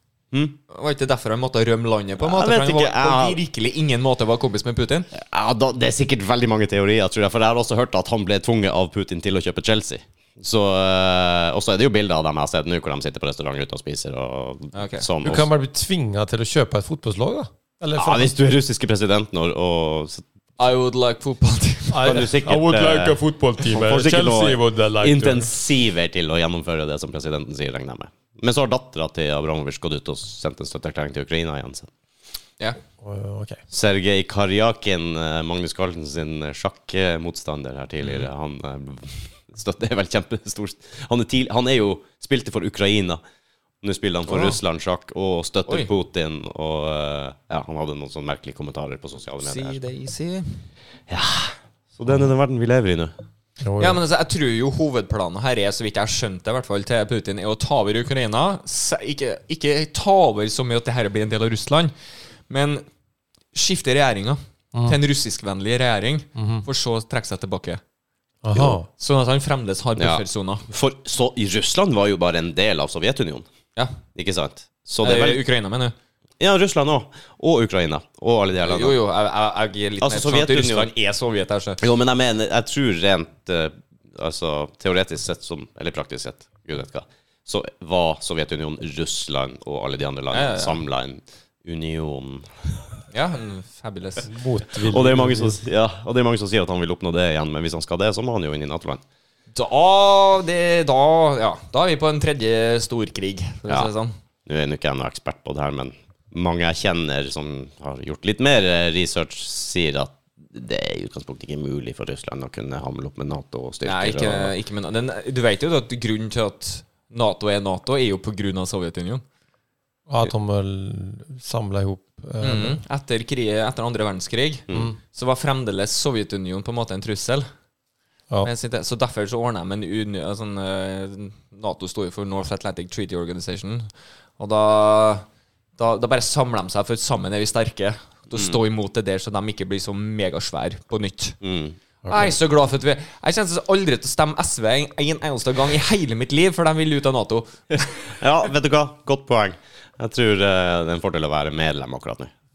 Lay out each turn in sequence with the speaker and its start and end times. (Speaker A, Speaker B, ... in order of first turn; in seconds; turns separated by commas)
Speaker A: 0.3-0.6, Speaker B: 0.7-5.1, Speaker A: 2.2-3.4, Speaker A: 5.1-15.5, Speaker B: 14.7-15.1, Speaker C: 15.2-18.3, Speaker A: 18.0-20.2, Speaker B: 20.6-22.3, Speaker C: 21.9-25.5, Speaker A: 22.0-31.9, Speaker C: 33.0-33.6, Speaker A: 33.7-43.2, Speaker B: 38.0-38.3, Speaker A: 43.8-49.8, Speaker B: 44.3-44.6, Speaker B: 49.4-50.6, Speaker A: 51.1-53.1, Speaker C: 53.6-54.0, Speaker B: 53.8-61.9, Speaker B: 62.5-62.8, Speaker B: 63.5-67.8, Speaker C: 66.3-66.6, Speaker C: 68.4-68.9, Speaker B: 68.9-70.6, Speaker A: 70.0-73.5, Speaker A: 74.1-75.4, Speaker B: 75.0-75.9, Speaker A: 76.4-79.0, Speaker B: 78.6-81.8, Speaker A: 80.0-80.9, Speaker A: 81.8-92.9, Speaker B: 90.3-90.8, Speaker B: 93.1-94.3, Speaker C: 94.2-95.6, Speaker A: 94.8-99.0, Speaker B: 99.5-104.1, Speaker A: 104.5-114.5, Speaker B: 113.8-119.2, Speaker C: 120.1-122.8, Speaker B: 122.4-127.5, Speaker C: 124.7-125.0, Speaker B: 128.4-133.9, Speaker B: 134.4-135.2, Speaker B: 135.8-141.4, Speaker A: 138.3-138.6, Speaker A: 141.4-141.8, Speaker C: 142.0-142.3, Speaker B: 142.1-148.1, Speaker A: 148.2-152.3